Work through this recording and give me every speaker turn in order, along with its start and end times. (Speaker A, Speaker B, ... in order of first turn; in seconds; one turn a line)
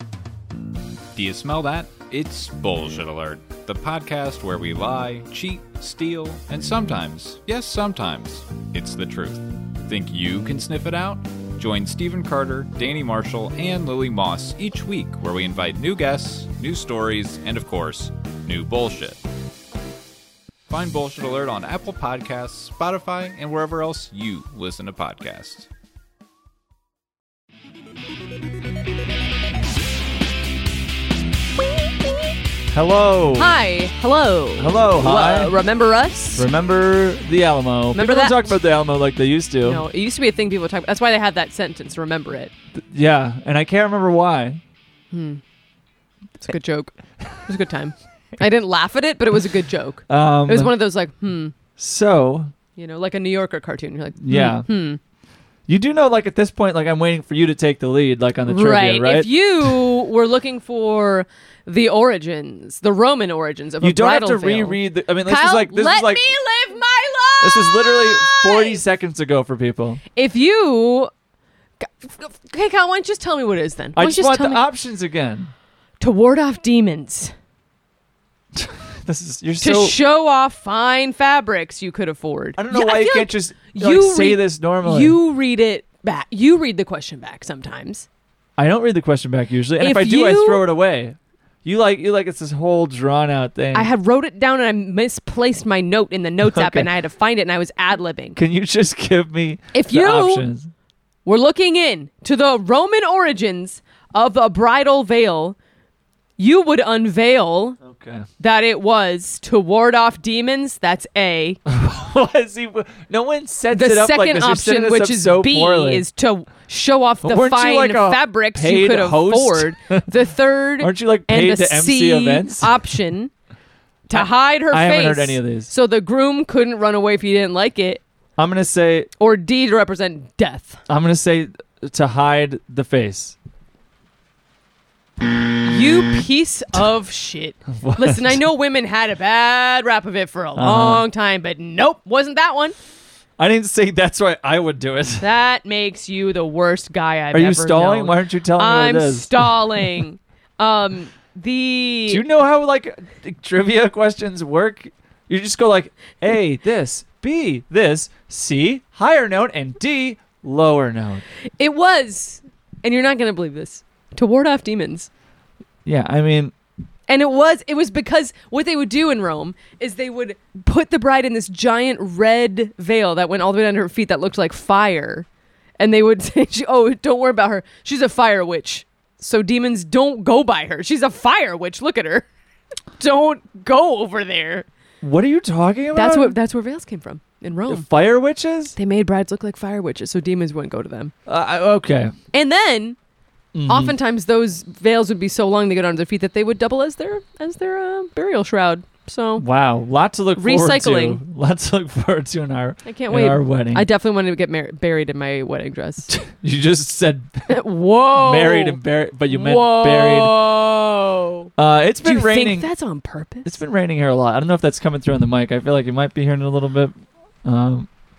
Speaker A: 1.1-19.2
Speaker A: 20.7-25.7
Speaker B: 32.7-33.5
Speaker C: 33.4-36.5
Speaker B: 34.6-35.6
Speaker B: 36.4-39.8
Speaker C: 37.9-38.5
Speaker C: 39.6-42.5
Speaker B: 42.7-44.6
Speaker C: 45.1-45.4
Speaker C: 46.4-51.5
Speaker B: 50.1-50.7
Speaker B: 51.8-52.5
Speaker C: 52.8-55.0
Speaker B: 54.2-54.6
Speaker B: 55.7-59.9
Speaker C: 58.5-68.8
Speaker B: 63.8-66.2
Speaker B: 67.4-70.0
Speaker C: 70.1-71.1
Speaker C: 71.8-74.6
Speaker B: 73.9-75.5
Speaker C: 76.0-77.3
Speaker B: 78.5-80.0
Speaker C: 79.6-88.1
Speaker B: 82.6-85.2
Speaker B: 88.6-93.9
Speaker C: 89.8-90.7
Speaker C: 93.7-98.4
Speaker B: 96.4-96.9
Speaker B: 98.4-100.7
Speaker C: 99.7-100.5
Speaker C: 101.2-105.6
Speaker C: 106.4-107.8
Speaker B: 107.8-108.3
Speaker C: 108.4-111.6
Speaker B: 111.7-116.0
Speaker C: 113.7-123.3
Speaker B: 117.2-120.1
Speaker B: 120.8-122.8
Speaker C: 124.1-128.0
Speaker B: 124.1-125.7
Speaker B: 128.4-129.1
Speaker C: 129.2-130.8
Speaker B: 130.9-133.4
Speaker C: 135.6-142.8
Speaker B: 137.7-138.4
Speaker B: 140.6-141.1
Speaker B: 143.4-145.3
Speaker C: 145.2-152.2
Speaker B: 147.3-149.9
Speaker B: 152.1-161.2
Speaker C: 161.6-165.1
Speaker B: 165.8-166.5
Speaker C: 167.1-175.3
Speaker C: 175.8-182.3
Speaker C: 183.0-184.7
Speaker B: 185.0-186.4
Speaker C: 185.9-187.9
Speaker B: 187.7-188.8
Speaker C: 188.8-191.1
Speaker B: 191.3-192.1
Speaker C: 192.3-193.0
Speaker B: 193.5-193.9
Speaker C: 193.7-199.4
Speaker B: 199.4-203.9
Speaker C: 200.4-201.2
Speaker C: 202.8-206.1
Speaker B: 206.1-207.6
Speaker C: 207.5-211.5
Speaker B: 208.1-210.4
Speaker B: 211.6-212.7
Speaker C: 212.0-213.6
Speaker B: 213.4-217.9